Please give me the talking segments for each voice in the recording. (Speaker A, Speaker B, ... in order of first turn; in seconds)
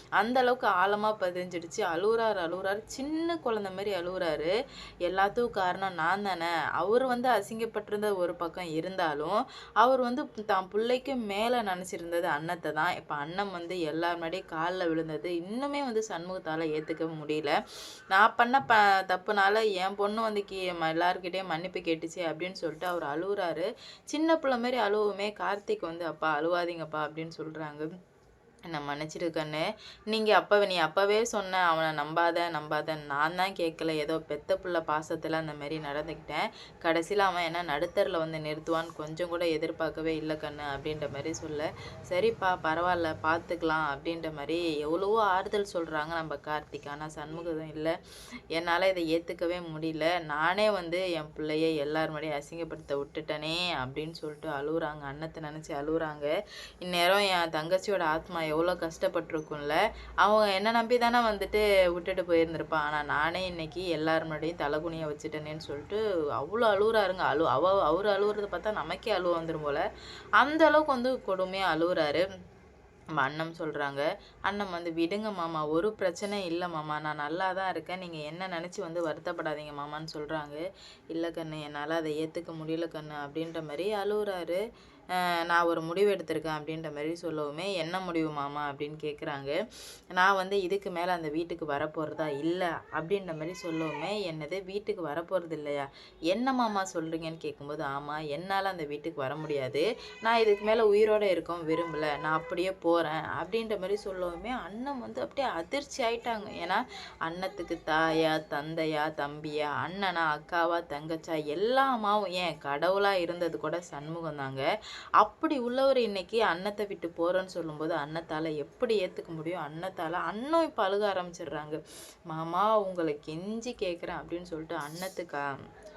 Speaker A: 0.2-4.5, 5.1-17.6, 18.1-27.9, 28.7-48.0, 48.5-56.3, 56.8-69.8, 70.4-72.2, 73.2-84.6, 85.5-89.6, 90.1-114.7, 115.2-125.4